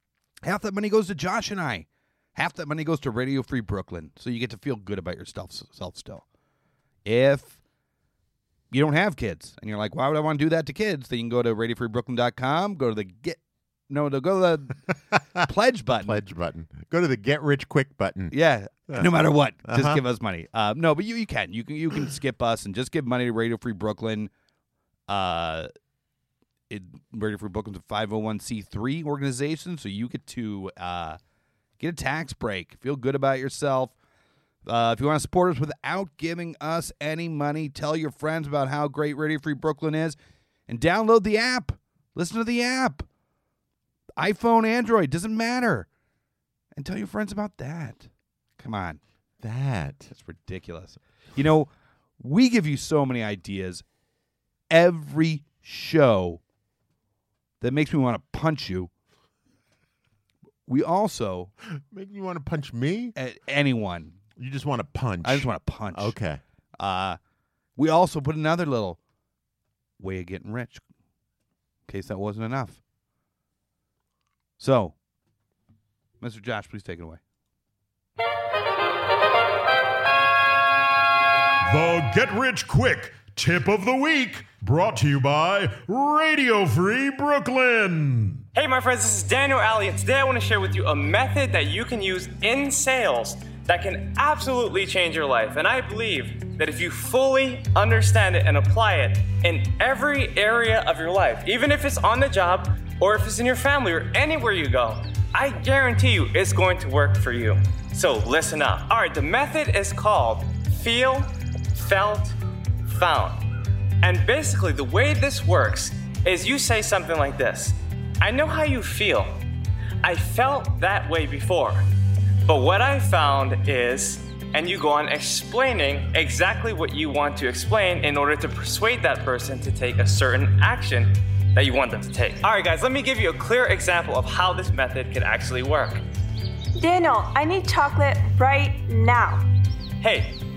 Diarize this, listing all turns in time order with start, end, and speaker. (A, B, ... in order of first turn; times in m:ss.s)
0:00.4-0:06.2 A
0:07.0-0:07.6 A
0:08.7-0:16.2 A
0:16.0-0:18.4 B
0:18.3-0:24.3 A
0:18.9-0:20.0 B
0:25.1-0:25.7 A
0:26.7-0:31.2 A
0:31.8-0:34.0 A
0:34.6-0:40.2 A
0:40.7-0:43.1 A
0:44.2-0:45.9 A
0:46.7-0:49.0 A
0:49.4-0:50.1 B
0:50.1-0:53.8 A
0:54.7-0:56.4 A
0:57.6-0:58.9 A
1:00.7-1:01.5 A
1:01.7-1:03.1 B
1:03.2-1:04.2 A
1:04.4-1:06.4 B
1:05.2-1:06.2 A
1:06.8-1:07.2 A
1:07.8-1:09.0 A
1:10.0-1:10.8 A
1:11.9-1:12.8 A
1:14.6-1:15.0 A
1:16.2-1:17.2 A
1:21.6-1:28.4 C
1:28.6-1:53.4 D
1:54.0-1:59.4 D
2:00.0-2:01.9 D
2:02.4-2:16.0 D
2:16.8-2:19.4 E
2:20.0-2:20.4 D